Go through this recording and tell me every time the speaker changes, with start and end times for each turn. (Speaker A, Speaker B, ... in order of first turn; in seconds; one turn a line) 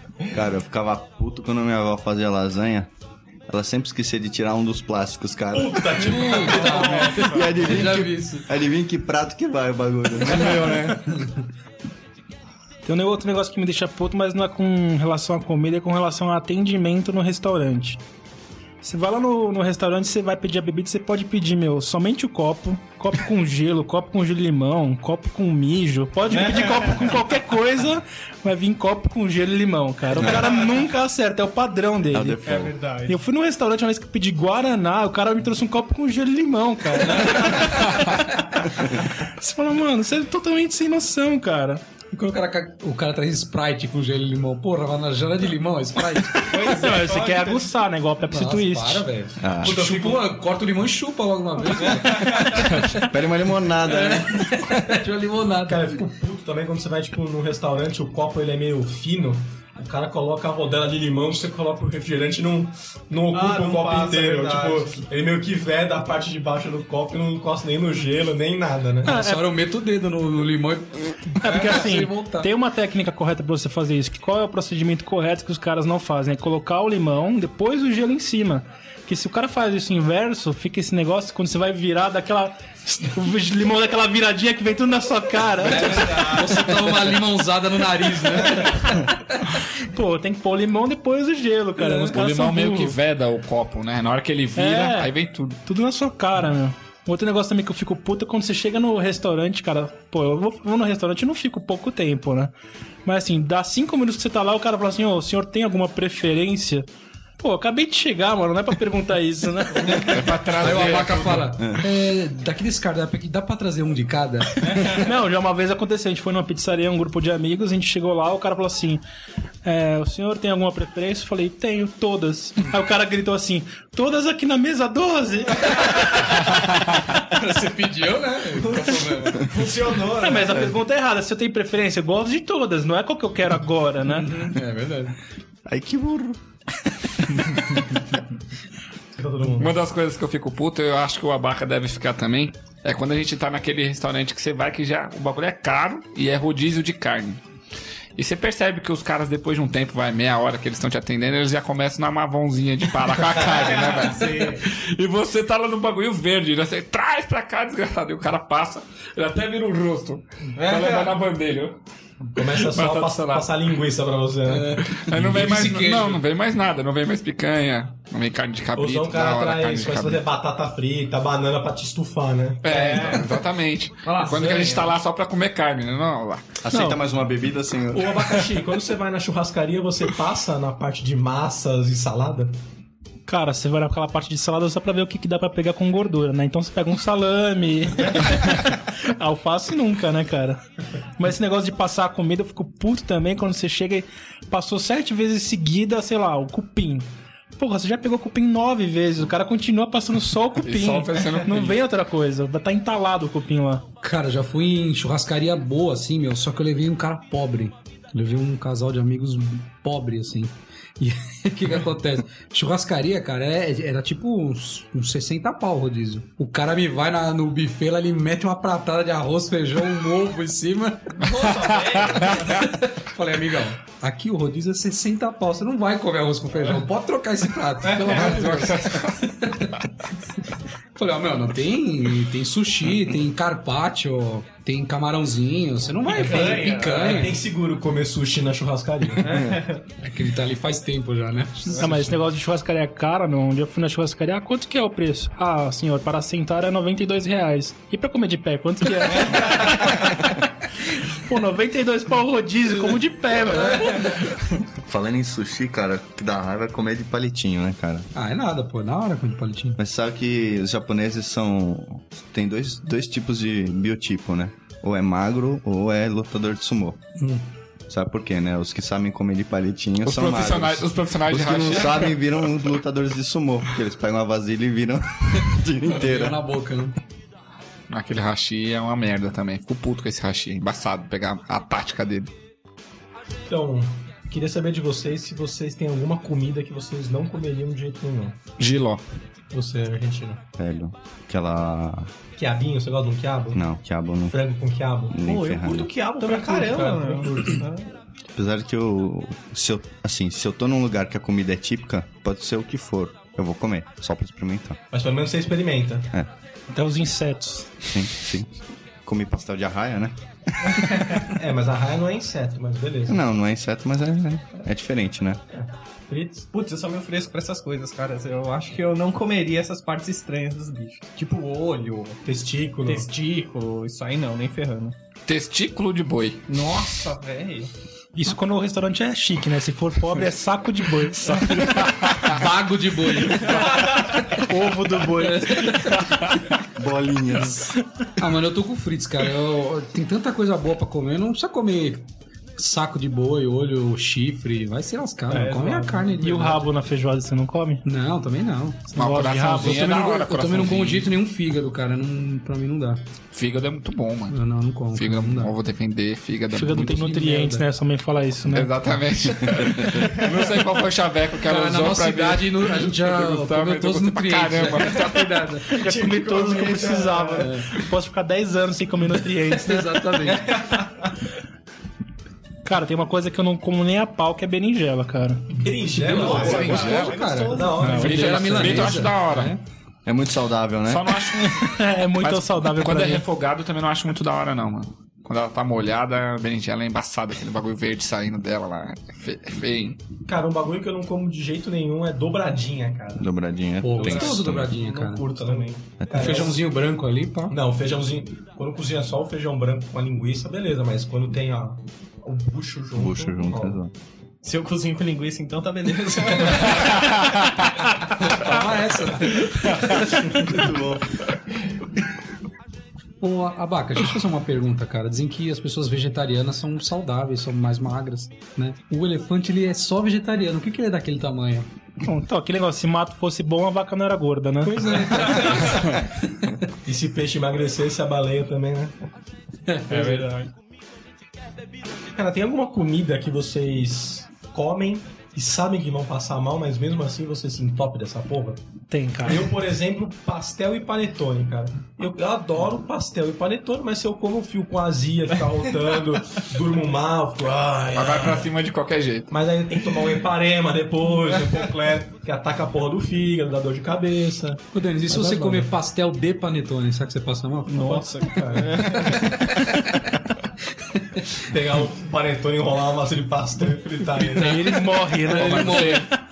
Speaker A: 0.3-2.9
Speaker A: 3.5-11.0
Speaker B: 5.5-7.4
Speaker C: 5.9-8.4
Speaker D: 12.8-18.0
Speaker D: 18.8-32.4
Speaker E: 26.3-27.1
Speaker A: 30.2-30.5
Speaker A: 32.1-32.8
Speaker E: 32.5-33.2
Speaker D: 33.1-38.2
Speaker D: 39.1-41.8
Speaker C: 42.1-46.7
Speaker E: 46.5-47.7
Speaker D: 46.5-49.1
Speaker C: 48.3-53.0
Speaker A: 49.4-49.8
Speaker B: 49.6-50.3
Speaker A: 53.0-54.5
Speaker C: 53.9-55.9
Speaker B: 55.7-69.1
Speaker E: 63.3-65.0
Speaker C: 69.0-72.5
Speaker D: 69.1-69.4
Speaker D: 71.4-86.5
Speaker C: 85.7-89.3
Speaker B: 86.0-86.7
Speaker D: 89.8-93.0
Speaker F: 91.9-95.6
Speaker D: 94.6-95.1
Speaker D: 95.7-102.5
Speaker D: 103.0-110.1
Speaker F: 110.0-111.4
Speaker C: 110.6-115.0
Speaker B: 110.7-111.4
Speaker A: 111.6-111.8
Speaker D: 114.9-119.0
Speaker D: 119.6-126.4
Speaker C: 125.9-126.5
Speaker C: 127.2-129.5
Speaker E: 128.6-130.7
Speaker D: 130.2-134.6
Speaker C: 134.1-135.1
Speaker A: 135.7-136.4
Speaker B: 139.2-139.7
Speaker F: 139.5-147.4
Speaker F: 148.2-161.8
Speaker E: 153.6-154.6
Speaker E: 160.6-161.1
Speaker B: 162.4-165.0
Speaker F: 162.4-163.5
Speaker C: 164.5-166.2
Speaker F: 164.8-170.2
Speaker B: 168.8-173.2
Speaker F: 172.6-176.5
Speaker E: 172.7-173.3
Speaker E: 174.0-174.9
Speaker A: 176.6-178.3
Speaker D: 176.7-177.0
Speaker B: 177.9-182.6
Speaker D: 183.3-190.6
Speaker D: 191.2-203.9
Speaker F: 200.6-201.8
Speaker C: 204.0-221.2
Speaker E: 221.2-222.7
Speaker F: 221.3-222.2
Speaker C: 222.5-229.7
Speaker E: 227.8-228.2
Speaker F: 228.0-229.9
Speaker C: 230.9-237.4
Speaker E: 236.0-237.4
Speaker B: 236.1-239.5
Speaker E: 239.2-239.8
Speaker C: 240.0-242.2
Speaker D: 241.8-250.3
Speaker D: 250.9-254.1
Speaker A: 254.8-258.1
Speaker C: 258.1-259.8
Speaker A: 259.8-267.1
Speaker A: 267.9-276.4
Speaker F: 270.0-272.3
Speaker C: 275.9-277.0
Speaker F: 277.9-282.3
Speaker B: 283.5-288.4
Speaker F: 288.6-289.0
Speaker B: 289.5-290.4
Speaker A: 290.6-292.1
Speaker B: 292.4-293.6
Speaker A: 293.5-294.4
Speaker B: 294.3-297.7
Speaker A: 295.1-295.9
Speaker E: 295.2-297.9
Speaker A: 298.4-304.8
Speaker B: 304.9-306.1
Speaker D: 306.7-308.0
Speaker A: 307.9-308.5
Speaker A: 309.1-311.1
Speaker B: 311.2-313.2
Speaker A: 313.1-315.4
Speaker B: 315.5-316.5
Speaker E: 316.5-322.2
Speaker B: 322.2-323.1
Speaker E: 322.8-325.0
Speaker F: 325.3-326.5
Speaker E: 326.5-327.7
Speaker D: 328.1-331.8
Speaker F: 331.9-332.3
Speaker C: 332.2-334.0
Speaker E: 333.4-334.0
Speaker D: 334.4-335.8
Speaker C: 335.1-336.1
Speaker A: 336.8-337.7
Speaker C: 338.2-342.0
Speaker C: 342.6-346.6
Speaker E: 345.3-346.5
Speaker D: 346.2-347.8
Speaker C: 347.9-348.9
Speaker D: 348.9-349.9
Speaker F: 349.0-351.1
Speaker C: 349.5-353.0
Speaker F: 353.3-354.4
Speaker C: 354.3-355.6
Speaker F: 354.9-357.0
Speaker D: 356.5-358.7
Speaker C: 356.7-357.6
Speaker F: 358.5-365.5
Speaker A: 359.4-360.2
Speaker C: 361.4-365.7
Speaker D: 365.6-370.1
Speaker E: 366.0-367.4
Speaker B: 366.0-367.2
Speaker C: 367.4-367.7
Speaker C: 369.5-370.5
Speaker E: 370.2-371.1
Speaker D: 372.6-375.6
Speaker B: 375.6-379.1
Speaker C: 376.1-379.6
Speaker E: 376.1-377.9
Speaker F: 376.2-377.3
Speaker D: 377.8-378.2
Speaker F: 378.0-379.6
Speaker A: 380.1-381.2
Speaker F: 380.9-390.0
Speaker D: 381.4-383.3
Speaker B: 390.2-393.3
Speaker A: 393.2-394.7
Speaker C: 393.8-395.3
Speaker E: 394.0-396.0
Speaker B: 394.0-396.6
Speaker A: 396.0-396.5
Speaker C: 396.1-397.6
Speaker B: 397.5-403.8
Speaker A: 403.0-403.9
Speaker E: 404.4-406.9
Speaker C: 408.3-409.8
Speaker A: 410.4-411.1
Speaker C: 413.2-421.7
Speaker D: 422.0-425.0
Speaker C: 424.6-426.0
Speaker B: 426.9-428.9
Speaker C: 429.7-430.4
Speaker E: 429.9-430.5
Speaker B: 432.1-438.6
Speaker D: 438.9-439.5
Speaker B: 439.2-448.5
Speaker F: 447.9-449.3
Speaker B: 449.3-455.7
Speaker C: 454.7-458.0
Speaker E: 457.7-459.4
Speaker B: 457.7-459.2
Speaker C: 459.2-460.0
Speaker B: 461.4-464.6
Speaker C: 464.3-466.1
Speaker D: 464.3-466.1
Speaker F: 465.3-466.1